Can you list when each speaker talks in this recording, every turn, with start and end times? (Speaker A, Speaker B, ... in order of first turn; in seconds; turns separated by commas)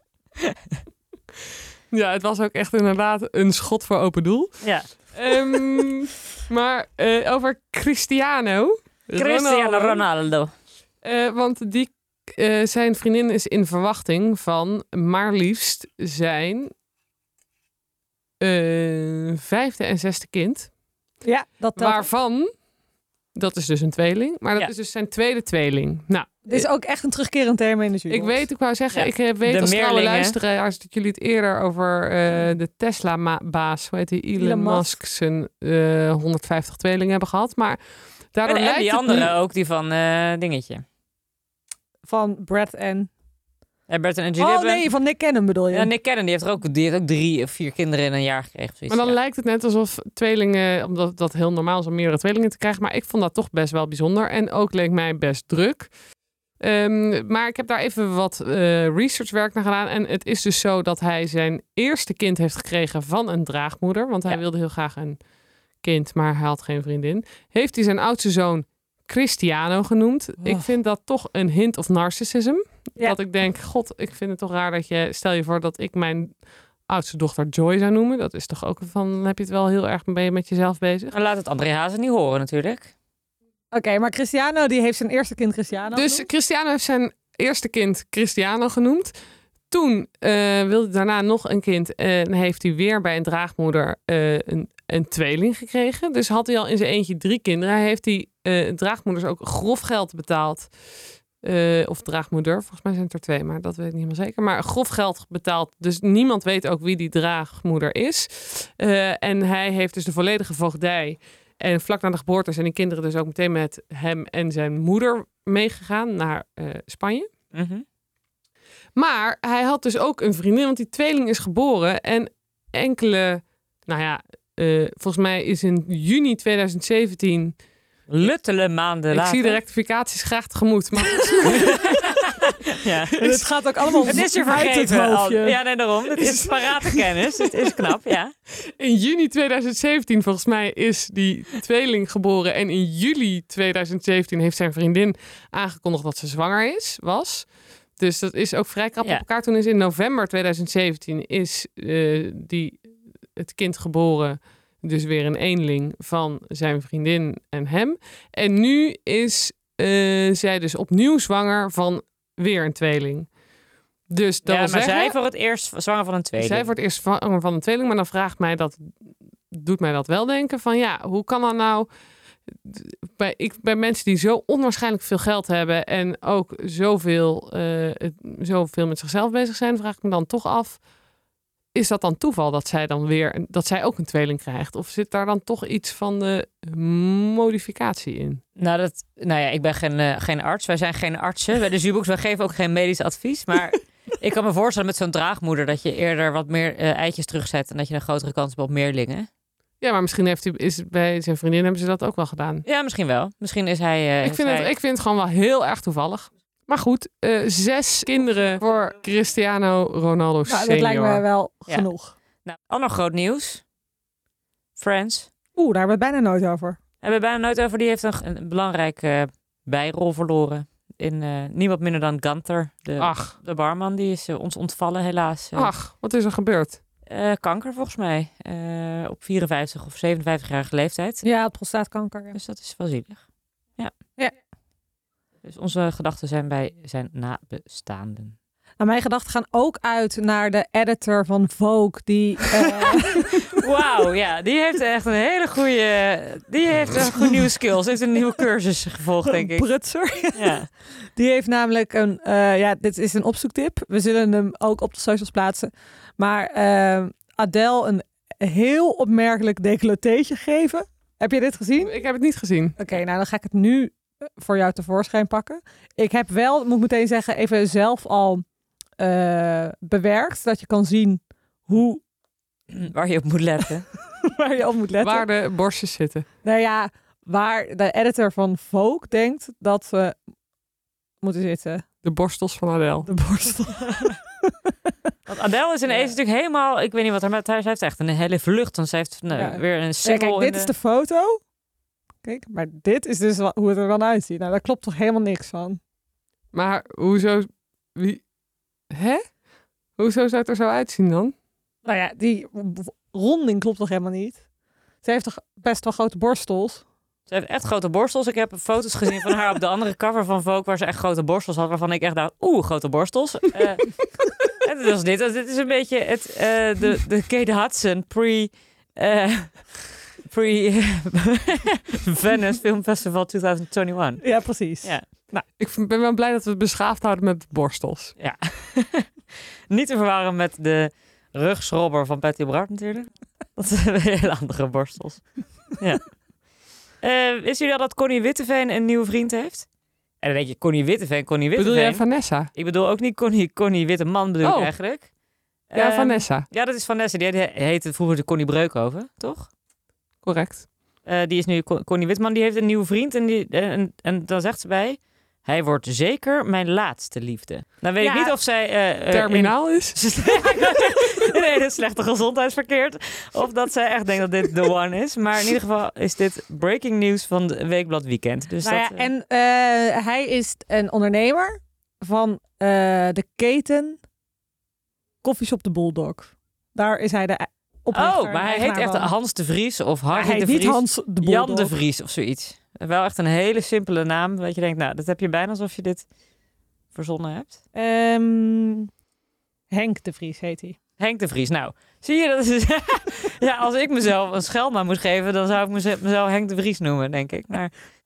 Speaker A: 1.9-4.6, Speaker B: 4.6-4.9, Speaker A: 5.1-10.1, Speaker B: 9.2-10.5, Speaker A: 11.0-16.7, Speaker A: 18.4-20.7, Speaker C: 21.2-22.1, Speaker A: 21.8-22.5, Speaker A: 23.3-26.7, Speaker C: 26.5-28.4, Speaker A: 28.1-37.8, Speaker B: 28.9-30.4, Speaker C: 34.4-35.0, Speaker A: 38.3-39.4, Speaker B: 38.5-40.8, Speaker C: 42.1-43.1, Speaker B: 43.9-44.9, Speaker C: 44.4-45.9, Speaker B: 45.7-49.2, Speaker A: 48.9-55.9, Speaker A: 56.6-65.2, Speaker A: 65.8-76.3, Speaker A: 76.9-81.2, Speaker B: 81.1-82.9, Speaker C: 83.7-86.3, Speaker A: 85.9-89.1, Speaker A: 89.7-100.7, Speaker A: 101.4-117.3, Speaker B: 117.5-117.8, Speaker A: 119.0-127.6, Speaker B: 128.1-129.6, Speaker A: 129.1-131.9, Speaker B: 131.5-133.5, Speaker C: 133.1-135.6, Speaker B: 134.1-138.3, Speaker A: 136.2-137.2, Speaker A: 138.7-147.5, Speaker A: 148.0-152.8, Speaker A: 153.4-163.3, Speaker A: 164.1-165.2, Speaker B: 164.4-166.7, Speaker A: 166.4-168.9, Speaker A: 169.5-171.9, Speaker A: 172.6-180.8, Speaker A: 181.7-188.4, Speaker B: 188.6-199.3, Speaker A: 199.8-202.7, Speaker B: 202.7-204.7, Speaker A: 204.2-211.2, Speaker C: 210.5-212.1, Speaker B: 212.4-213.6, Speaker B: 214.8-215.3, Speaker C: 215.6-216.8, Speaker B: 217.0-225.7, Speaker A: 223.0-223.3, Speaker A: 225.6-226.8, Speaker B: 227.1-231.2, Speaker C: 231.2-232.4, Speaker B: 232.3-233.2, Speaker B: 235.4-238.3, Speaker C: 238.8-243.6, Speaker B: 242.8-249.7, Speaker C: 249.3-261.9, Speaker B: 250.3-250.7, Speaker A: 261.8-262.8, Speaker C: 262.8-268.4, Speaker C: 269.0-272.0, Speaker B: 272.7-273.9, Speaker C: 274.2-275.3, Speaker A: 275.0-276.3, Speaker C: 276.4-280.2, Speaker C: 281.2-281.9, Speaker A: 282.0-283.1, Speaker C: 283.1-284.5, Speaker B: 285.3-290.7, Speaker C: 285.9-286.1, Speaker C: 289.3-291.4, Speaker C: 292.2-295.8, Speaker A: 296.5-298.2, Speaker A: 298.9-299.2, Speaker A: 300.0-301.3, Speaker C: 301.9-304.4, Speaker C: 305.0-306.9, Speaker B: 307.3-325.1, Speaker C: 324.2-325.4, Speaker A: 325.6-328.1, Speaker B: 328.2-329.1, Speaker B: 329.7-336.1, Speaker B: 337.0-339.7, Speaker B: 340.2-345.1, Speaker A: 341.6-342.5, Speaker A: 344.4-344.7, Speaker B: 345.7-349.5, Speaker A: 345.7-346.5, Speaker A: 350.2-350.7, Speaker B: 351.1-369.1, Speaker C: 358.0-358.4, Speaker A: 359.1-360.0, Speaker C: 368.6-374.0, Speaker C: 375.2-379.1, Speaker B: 377.9-386.1, Speaker C: 380.1-381.8, Speaker B: 386.9-387.6, Speaker C: 387.7-388.9, Speaker C: 389.7-390.8, Speaker B: 391.0-397.7